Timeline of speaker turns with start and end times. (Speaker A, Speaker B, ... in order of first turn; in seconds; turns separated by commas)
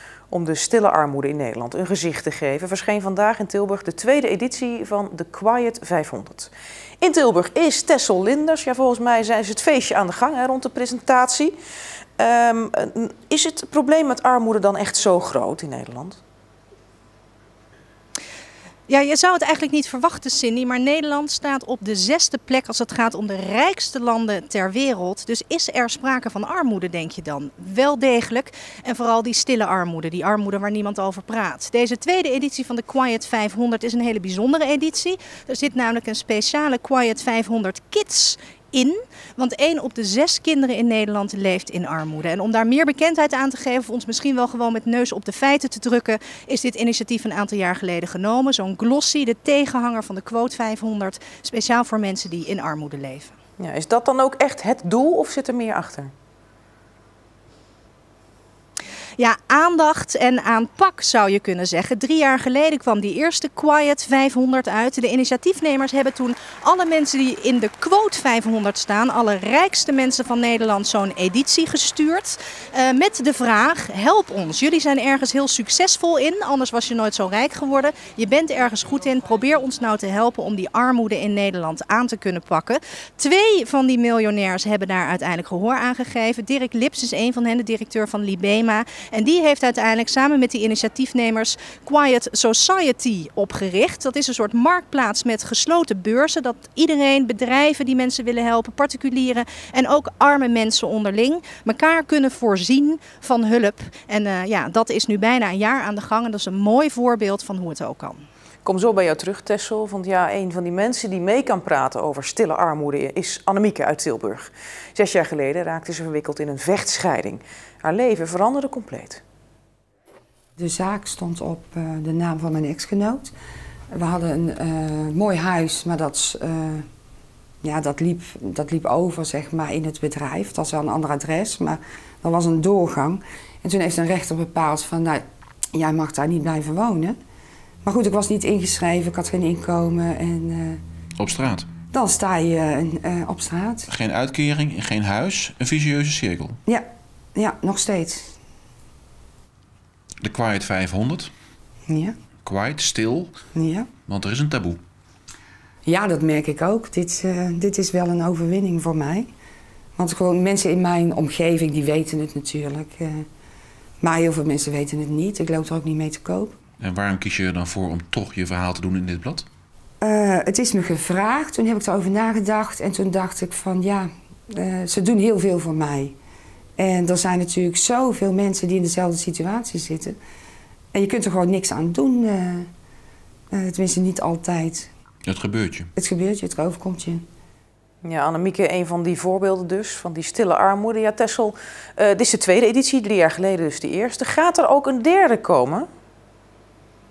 Speaker A: 0.3-11.6, Speaker A: 12.2-16.2, Speaker B: 18.9-53.3, Speaker A: 53.6-56.1, Speaker B: 59.2-108.2, Speaker A: 108.7-119.2, Speaker C: 120.6-123.3, Speaker C: 123.9-126.8, Speaker C: 127.6-135.2, Speaker C: 135.7-137.2, Speaker C: 137.8-140.8, Speaker D: 141.2-141.7, Speaker C: 141.9-143.9, Speaker D: 143.9-146.6, Speaker C: 147.3-148.3, Speaker D: 150.2-151.3, Speaker C: 151.9-152.1, Speaker D: 152.4-153.3, Speaker C: 153.5-153.9, Speaker D: 154.1-154.8, Speaker C: 155.9-159.3, Speaker C: 160.0-163.2, Speaker C: 164.0-166.6, Speaker D: 166.8-169.5, Speaker C: 170.0-176.2, Speaker C: 176.8-180.2, Speaker C: 180.9-182.7, Speaker C: 183.5-184.9, Speaker D: 185.2-185.9, Speaker C: 186.0-187.2, Speaker A: 188.0-195.9